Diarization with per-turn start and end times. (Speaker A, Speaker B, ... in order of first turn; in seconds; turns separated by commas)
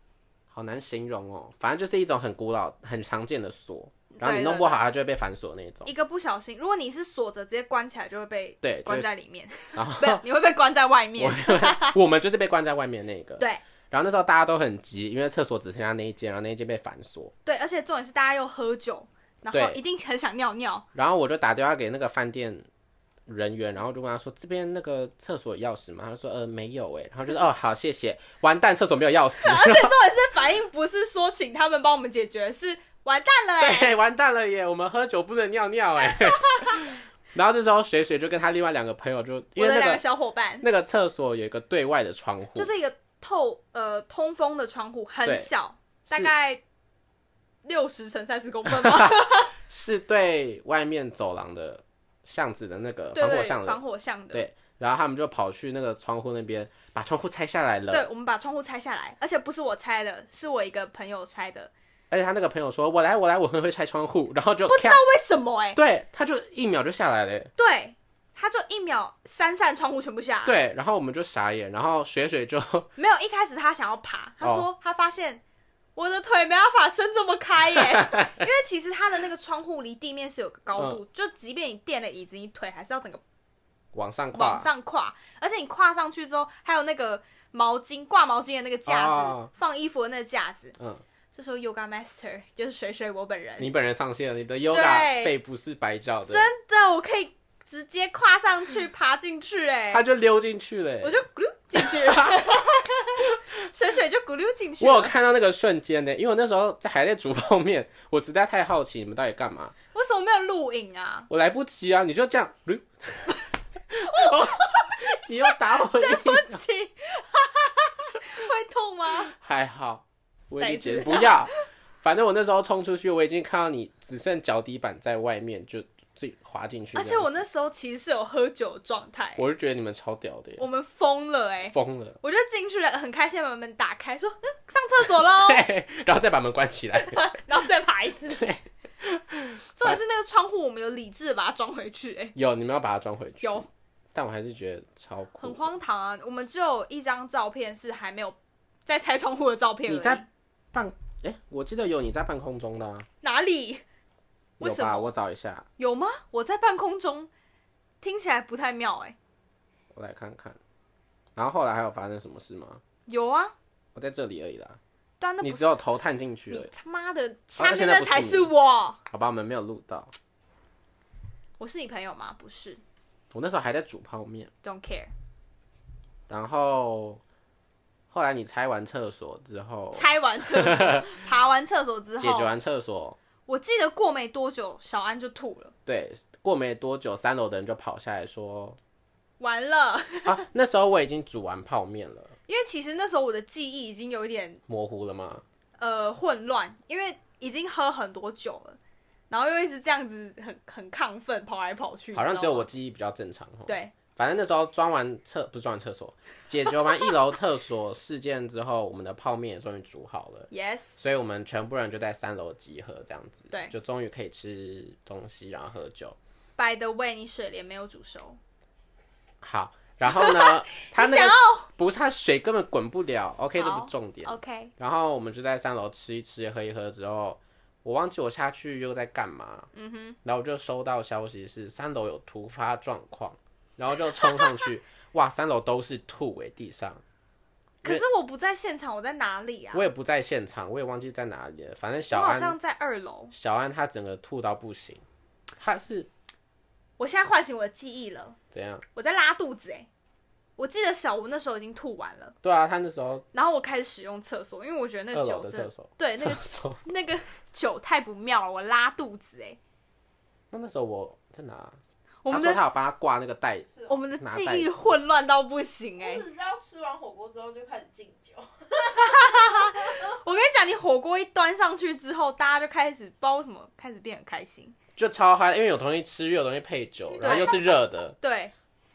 Speaker A: 0.5-5.9, Speaker B: 4.1-4.8, Speaker B: 5.8-12.0, Speaker A: 8.6-9.1, Speaker A: 9.7-10.2, Speaker A: 11.2-17.3, Speaker B: 17.4-20.9, Speaker A: 19.5-19.8, Speaker A: 20.9-22.7, Speaker A: 23.3-29.9, Speaker B: 29.4-33.9, Speaker A: 33.6-40.0, Speaker B: 36.5-36.8, Speaker B: 39.6-40.7, Speaker A: 40.6-42.7, Speaker B: 42.5-46.6, Speaker A: 45.2-45.5, Speaker B: 47.6-49.5, Speaker A: 48.8-53.8, Speaker B: 53.1-54.5, Speaker A: 54.3-58.1, Speaker B: 57.9-61.7, Speaker A: 62.1-65.0, Speaker B: 64.7-65.8, Speaker A: 65.7-67.5, Speaker B: 67.6-70.6, Speaker A: 70.4-72.9, Speaker B: 73.0-75.4, Speaker A: 74.4-74.7, Speaker B: 76.0-83.2, Speaker A: 77.8-78.3, Speaker A: 83.9-84.7, Speaker B: 84.3-90.8, Speaker A: 88.9-89.5, Speaker B: 91.3-93.7, Speaker A: 93.6-96.5, Speaker B: 94.7-95.3, Speaker B: 96.3-100.0, Speaker A: 99.9-101.2, Speaker B: 101.0-105.1, Speaker A: 101.8-102.5, Speaker A: 104.8-109.7, Speaker B: 109.9-111.3, Speaker A: 111.3-113.4, Speaker A: 113.9-116.6, Speaker B: 114.1-119.3, Speaker A: 119.2-127.4, Speaker B: 120.6-121.5, Speaker B: 126.9-129.4, Speaker A: 129.4-130.6, Speaker B: 130.6-135.7, Speaker A: 131.7-132.2, Speaker A: 135.1-137.3, Speaker B: 137.0-138.4, Speaker A: 138.3-140.0, Speaker B: 139.8-142.3, Speaker A: 142.3-145.7, Speaker B: 143.4-143.7, Speaker B: 145.4-150.3, Speaker A: 149.9-153.1, Speaker B: 153.2-153.8, Speaker A: 154.6-155.7, Speaker B: 154.6-155.1, Speaker B: 155.8-157.3, Speaker B: 158.0-159.2, Speaker A: 159.9-160.6, Speaker A: 161.3-162.8, Speaker B: 163.1-163.5, Speaker A: 163.9-164.8, Speaker B: 165.2-165.7, Speaker A: 165.4-166.7, Speaker B: 166.5-169.0, Speaker A: 167.6-168.5, Speaker A: 169.1-170.1, Speaker B: 171.6-172.8, Speaker A: 173.3-174.5, Speaker B: 174.6-175.1, Speaker A: 176.3-177.2, Speaker A: 178.1-181.1, Speaker B: 179.9-182.5, Speaker A: 182.2-183.2, Speaker B: 183.5-185.7, Speaker A: 185.8-188.8, Speaker B: 189.4-190.4, Speaker A: 190.2-192.3, Speaker B: 192.5-194.6, Speaker A: 194.7-195.4, Speaker B: 195.8-198.8, Speaker B: 199.3-202.7, Speaker A: 202.1-216.2, Speaker B: 203.7-203.9, Speaker B: 210.5-211.0, Speaker B: 216.6-218.4, Speaker A: 219.4-229.7, Speaker B: 220.0-221.7, Speaker B: 223.6-224.7, Speaker B: 229.7-230.2, Speaker A: 230.2-237.0, Speaker B: 237.8-239.9, Speaker A: 239.7-242.6, Speaker B: 242.1-243.3, Speaker A: 243.3-245.0, Speaker A: 245.6-246.1, Speaker B: 247.0-248.4, Speaker A: 248.5-248.8, Speaker B: 248.9-249.9, Speaker B: 250.6-252.3, Speaker A: 252.4-253.2, Speaker B: 253.3-259.6, Speaker A: 255.1-256.8, Speaker A: 260.5-261.8, Speaker B: 262.2-262.6, Speaker A: 262.3-264.7, Speaker B: 263.9-266.2, Speaker C: 266.0-270.1, Speaker B: 268.9-274.7, Speaker A: 274.9-278.1, Speaker B: 277.2-278.5